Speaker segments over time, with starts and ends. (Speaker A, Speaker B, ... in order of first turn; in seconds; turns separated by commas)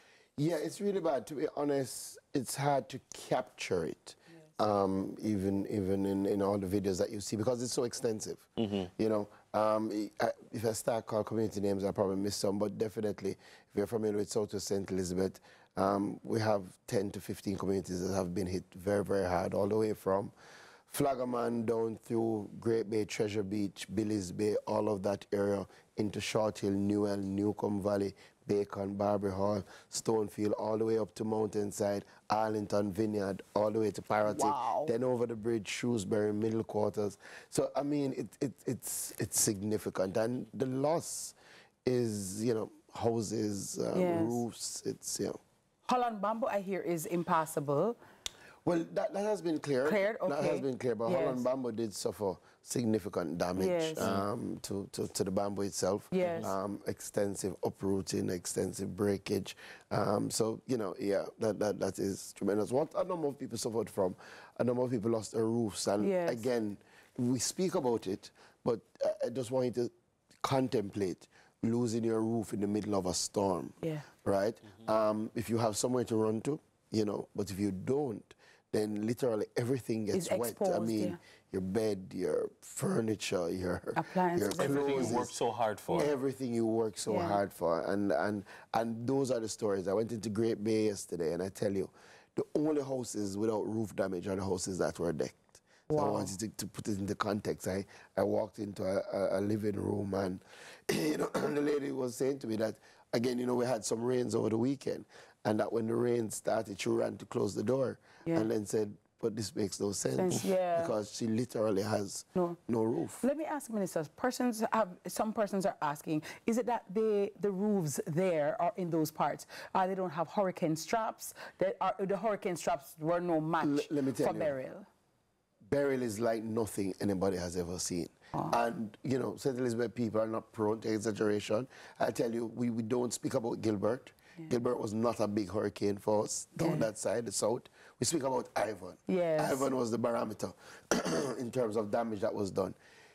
Speaker A: 0.4-20.3, Speaker B: 8.6-8.9, Speaker A: 20.9-45.4, Speaker C: 34.3-34.9, Speaker C: 43.9-44.4, Speaker C: 45.9-48.0, Speaker A: 48.6-69.9, Speaker C: 49.9-51.5, Speaker C: 53.6-54.1, Speaker B: 54.0-54.3, Speaker C: 56.1-56.5, Speaker B: 56.2-56.5, Speaker C: 66.0-66.5, Speaker A: 70.4-85.3, Speaker C: 73.8-74.1, Speaker C: 80.1-81.2, Speaker C: 84.0-85.3, Speaker B: 84.6-86.1, Speaker A: 85.9-113.2, Speaker C: 87.1-87.4, Speaker C: 95.9-96.3, Speaker C: 108.2-108.5, Speaker C: 110.2-110.9, Speaker C: 113.2-124.9, Speaker A: 123.6-124.6, Speaker A: 125.7-142.8, Speaker C: 136.6-136.9, Speaker C: 139.1-139.7